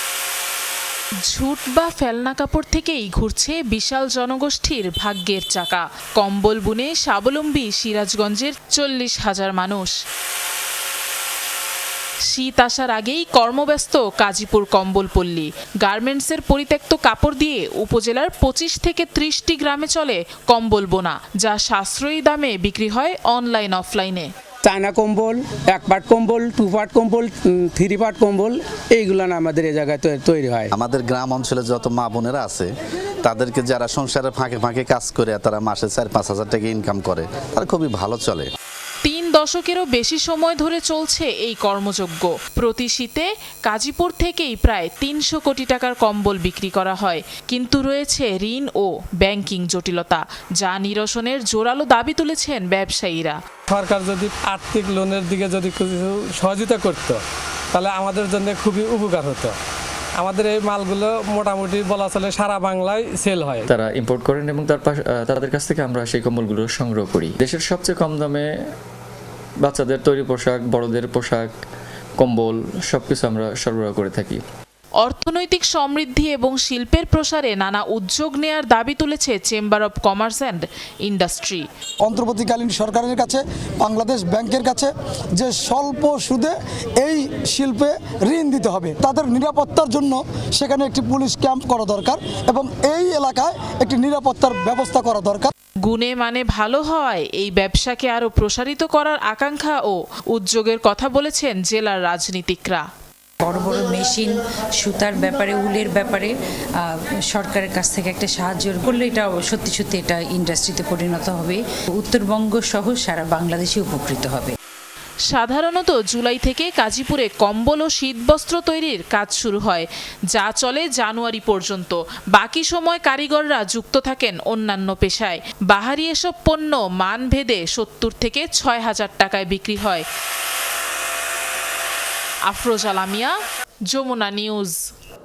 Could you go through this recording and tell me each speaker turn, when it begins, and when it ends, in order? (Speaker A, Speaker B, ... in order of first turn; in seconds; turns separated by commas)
Speaker A: 1.2-10.0, Speaker A: 12.2-24.3, Speaker B: 24.7-30.7, Speaker C: 30.7-32.7, Speaker C: 33.2-38.5, Speaker A: 39.0-53.4, Speaker D: 53.7-57.1, Speaker D: 57.8-59.5, Speaker D: 60.2-63.5, Speaker E: 63.7-68.5, Speaker E: 69.6-71.5, Speaker E: 72.2-74.4, Speaker A: 75.0-81.6, Speaker F: 82.0-95.5, Speaker A: 95.8-102.8, Speaker G: 103.4-106.3, Speaker G: 107.3-114.5, Speaker A: 115.3-130.1, Speaker A: 132.5-133.3, Speaker A: 133.9-134.8